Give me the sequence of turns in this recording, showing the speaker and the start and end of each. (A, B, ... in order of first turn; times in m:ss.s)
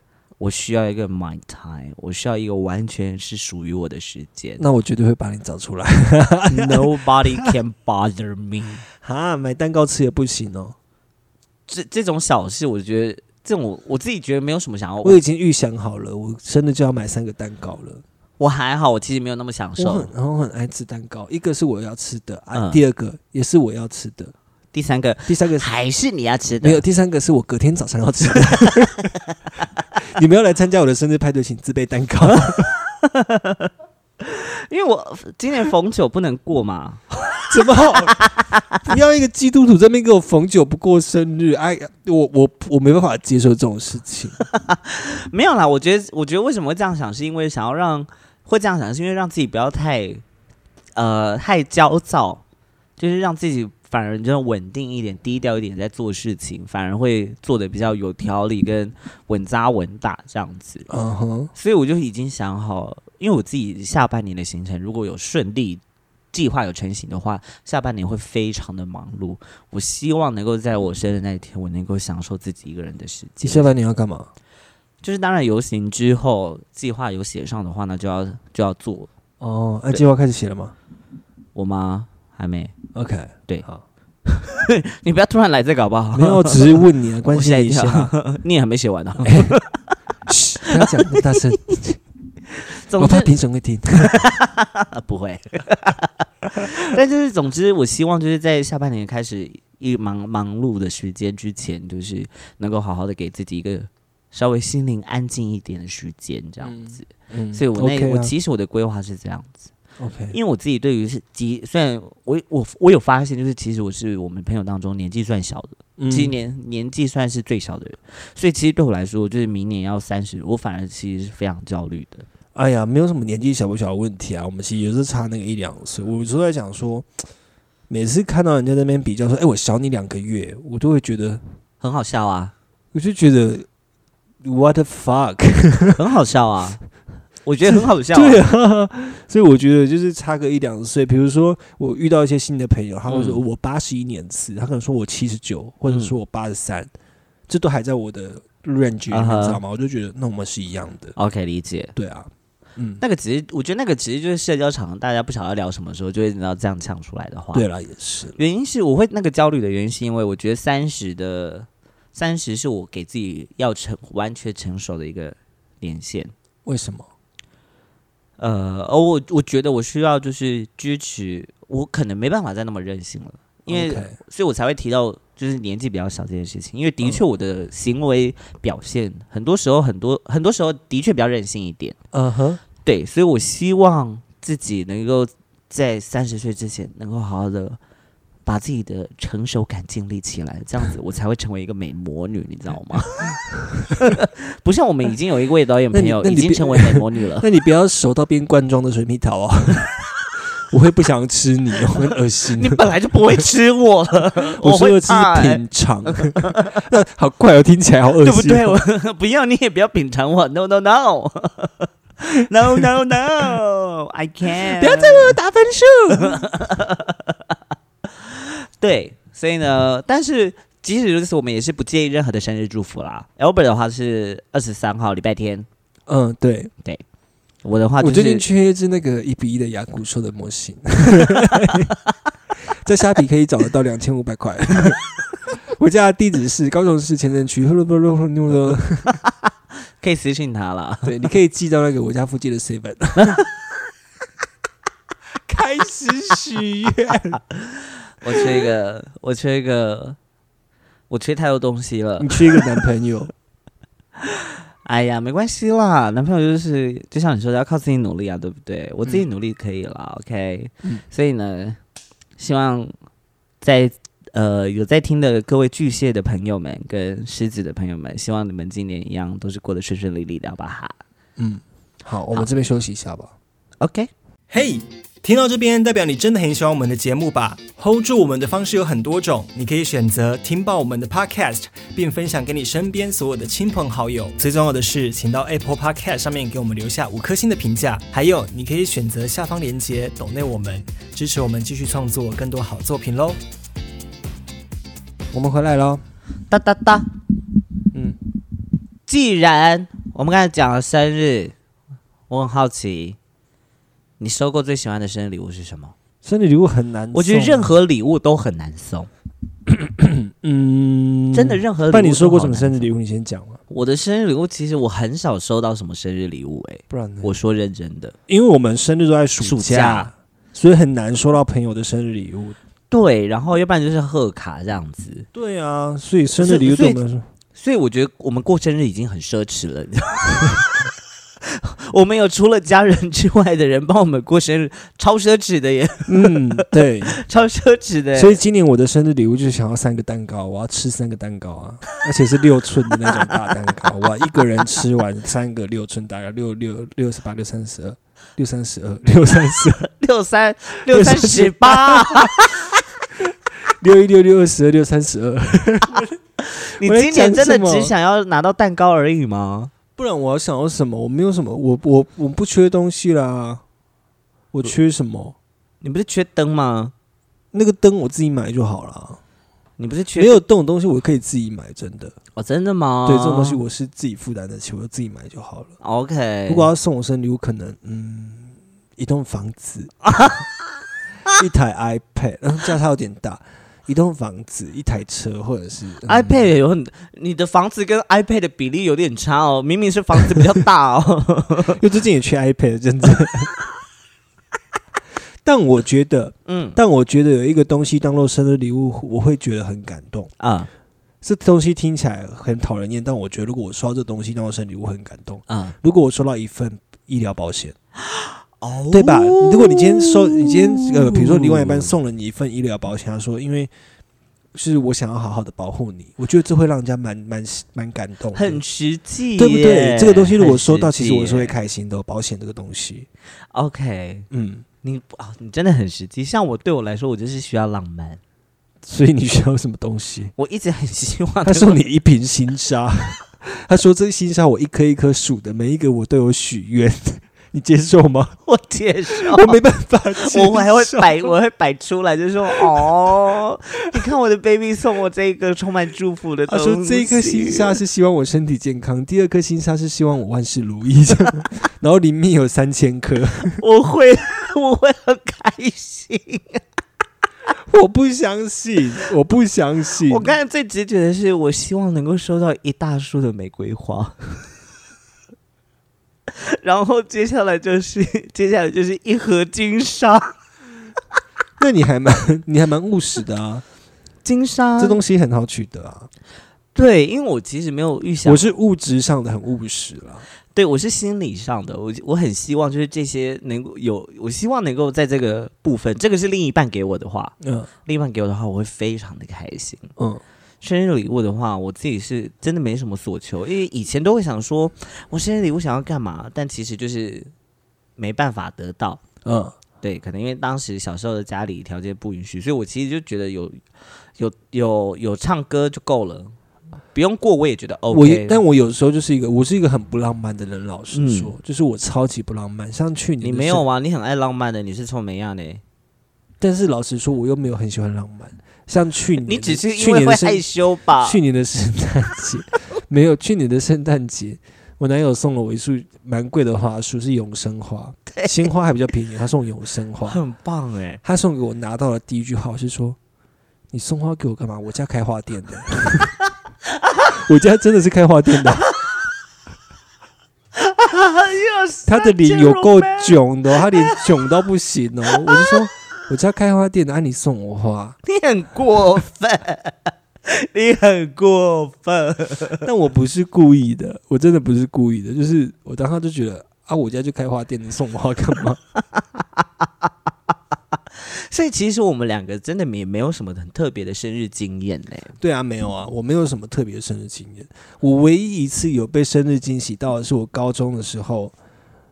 0:00.4-0:04.6 A
0:04.6-0:07.5 B
0:06.5-0:08.8 A
0:09.0-0:10.8 B
0:11.7-0:15.2 A
0:15.0-0:18.0 B
0:18.4-0:20.1 A
0:19.8-0:24.3 B
0:22.5-0:22.8 A
0:24.7-0:26.8 A
0:25.3-0:25.7 B
0:26.6-0:29.1 B
0:30.0-0:32.7 B
0:33.0-0:33.7 A
0:34.2-0:37.0 A
0:37.5-0:38.2 B
0:38.2-0:38.6 A
0:38.8-0:44.4 B
0:44.5-0:50.2 A
0:51.0-0:52.4 A
0:53.0-1:00.9 A
1:00.9-1:01.5 B
1:01.6-1:13.7 A
1:13.4-1:14.3 B
1:15.0-1:19.1 A
1:19.4-1:20.7 B
1:21.6-1:22.8 A
1:22.9-1:23.8 B
1:24.3-1:29.8 A
1:26.1-1:28.1 B
1:29.2-1:29.6 B
1:30.3-1:32.0 B
1:30.7-1:31.2 A
1:32.7-1:33.3 A
1:33.0-1:34.2 B
1:34.0-1:49.7 A
1:46.6-1:48.3 B
1:50.0-1:50.4 B
1:50.3-2:02.3 A
1:56.0-1:56.3 B
2:02.6-2:07.1 B
2:07.9-2:11.4 B
2:11.8-2:12.5 A
2:12.9-2:13.7 B
2:14.4-2:16.0 B
2:16.0-2:16.8 A
2:17.4-2:18.4 A
2:17.7-2:26.9 B
2:23.1-2:23.4 A
2:25.9-2:26.1 A
2:27.5-2:31.2 B
2:29.1-2:29.6 A
2:31.2-2:31.9 A
2:32.0-2:33.0 B
2:33.0-2:37.6 A
2:37.5-2:38.4 B
2:38.4-2:46.3 A
2:46.6-2:47.1 B
2:48.4-3:02.0 A
2:53.7-2:54.2 B
3:02.1-3:02.6 B
3:02.8-3:07.8 A
3:08.5-3:13.4 A
3:13.9-3:17.5 A
3:15.9-3:20.0 B
3:20.7-3:22.8 B
3:22.6-3:26.7 A
3:24.6-3:28.8 B
3:28.2-3:35.4 A
3:34.7-3:36.5 B
3:36.1-3:37.6 A
3:38.2-3:45.7 A
3:46.1-3:46.7 B
3:47.6-3:48.4 A
3:48.0-3:51.9 B
3:52.7-3:55.0 B
3:55.6-3:59.2 B
4:00.0-4:01.2 A
4:01.0-4:03.4 B
4:03.2-4:03.4 A
4:05.5-4:07.4 B
4:08.2-4:10.2 A
4:11.1-4:12.8 A
4:12.2-4:13.3 B
4:14.2-4:21.8 A
4:22.4-4:22.9 A
4:23.6-4:31.0 A
4:31.4-4:33.3 B
4:33.8-4:34.1 A
4:34.5-4:53.4 C
4:55.3-4:56.0 B
4:56.5-4:57.1 A
4:59.1-5:01.5 A
5:02.3-5:03.2 A
5:04.2-5:06.0 A
5:06.2-5:07.7 B
5:07.1-5:09.1 A
5:09.7-5:13.6 B
5:11.3-5:12.9 A
5:13.7-5:18.2 A
5:16.9-5:17.3 B
5:18.3-5:22.6 B
5:19.4-5:20.1 A
5:22.9-5:25.3 A
5:25.3-5:27.3 B
5:26.4-5:27.0 A
5:27.5-5:30.9 A
5:31.4-5:38.4 A
5:36.1-5:37.2 B
5:38.2-5:49.9 B
5:49.9-5:52.7 A
5:50.9-5:52.5 B
5:53.7-5:56.2 B
5:56.4-5:59.7 A
5:56.8-5:57.9 B
6:00.0-6:03.6 B
6:04.5-6:05.4 B
6:05.8-6:06.9 A
6:07.5-6:09.2 B
6:09.8-6:10.4 A
6:10.2-6:12.2 B
6:12.4-6:13.6 A
6:13.0-6:15.7 B
6:15.8-6:16.7 A
6:16.5-6:20.0 B
6:20.1-6:20.4 A
6:21.4-6:26.4 B
6:26.1-6:31.8 A
6:31.8-6:33.5 B
6:35.4-6:40.3 B
6:36.5-6:36.8 A
6:40.4-6:40.7 A
6:41.2-6:47.8 B
6:45.5-6:45.8 A
6:48.1-6:51.9 A
6:48.9-6:53.7 B
6:54.5-6:58.6 B
6:58.3-7:01.6 A
6:59.4-7:03.1 B
7:03.5-7:04.3 A
7:04.3-7:04.6 B
7:04.8-7:08.2 A
7:08.8-7:10.3 B
7:10.4-7:11.8 A
7:11.4-7:18.4 B
7:18.5-7:19.6 A
7:19.1-7:21.3 B
7:20.2-7:27.8 A
7:26.5-7:33.6 B
7:33.6-7:36.6 A
7:37.7-7:40.3 B
7:40.1-7:44.2 A
7:46.3-7:50.4 A
7:51.6-7:53.6 B
7:54.2-7:55.0 A
7:54.8-7:56.1 B
7:56.8-7:58.5 A
7:58.2-8:00.2 B
8:00.5-8:09.9 A
8:07.4-8:07.7 B
8:10.0-8:10.2 B
8:10.6-8:17.3 A
8:18.0-8:19.0 A
8:19.2-8:19.6 B
8:19.8-8:23.6 A
8:24.2-8:26.4 A
8:26.9-8:28.4 A
8:27.9-8:33.6 B
8:30.9-8:31.3 A
8:33.2-8:35.6 A
8:36.4-8:50.2 B
8:39.2-8:41.2 A
8:48.1-8:48.4 A
8:50.1-8:51.0 A
8:51.0-8:53.0 B
8:53.7-8:56.2 B
8:57.1-8:58.7 B
9:00.6-9:04.1 A
9:01.9-9:08.0 B
9:05.3-9:05.6 A
9:08.0-9:12.6 A
9:12.6-9:18.6 B
9:21.0-9:25.2 A
9:25.2-9:31.3 B